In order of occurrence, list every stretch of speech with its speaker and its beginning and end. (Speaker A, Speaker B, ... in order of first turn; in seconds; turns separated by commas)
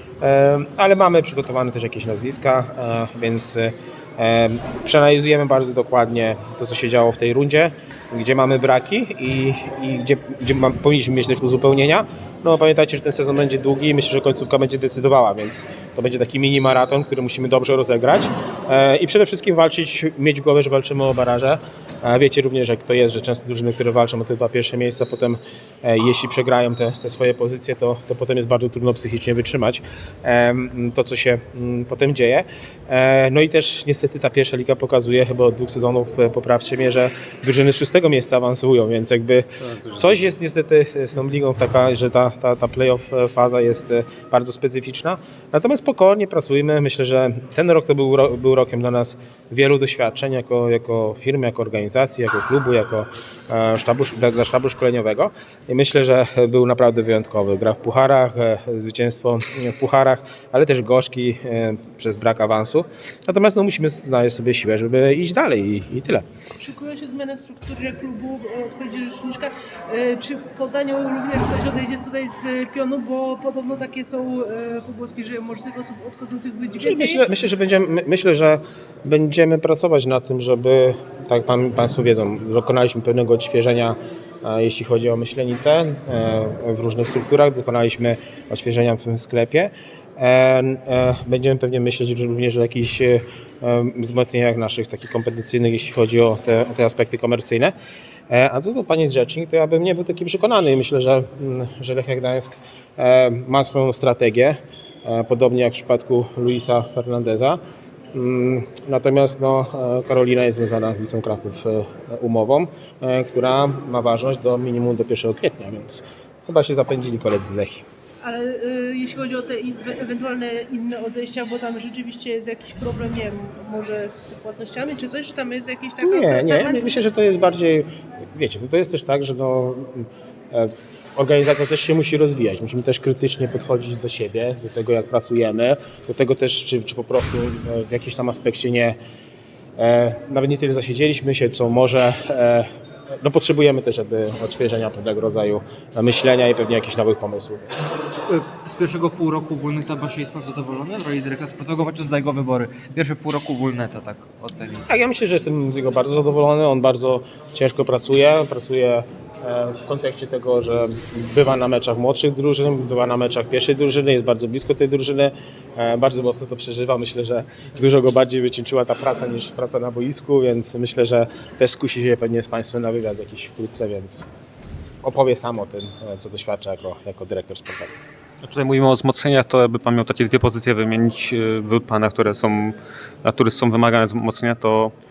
Speaker A: 0.2-66.2, Speaker B: 66.6-77.3, Speaker A: 76.8-97.7, Speaker A: 98.3-107.6, Speaker A: 108.1-117.8, Speaker B: 118.2-127.0, Speaker A: 126.0-139.0, Speaker A: 139.8-142.7, Speaker A: 143.2-147.6, Speaker C: 148.3-154.8, Speaker A: 154.8-174.2, Speaker A: 175.0-177.9, Speaker D: 178.4-184.9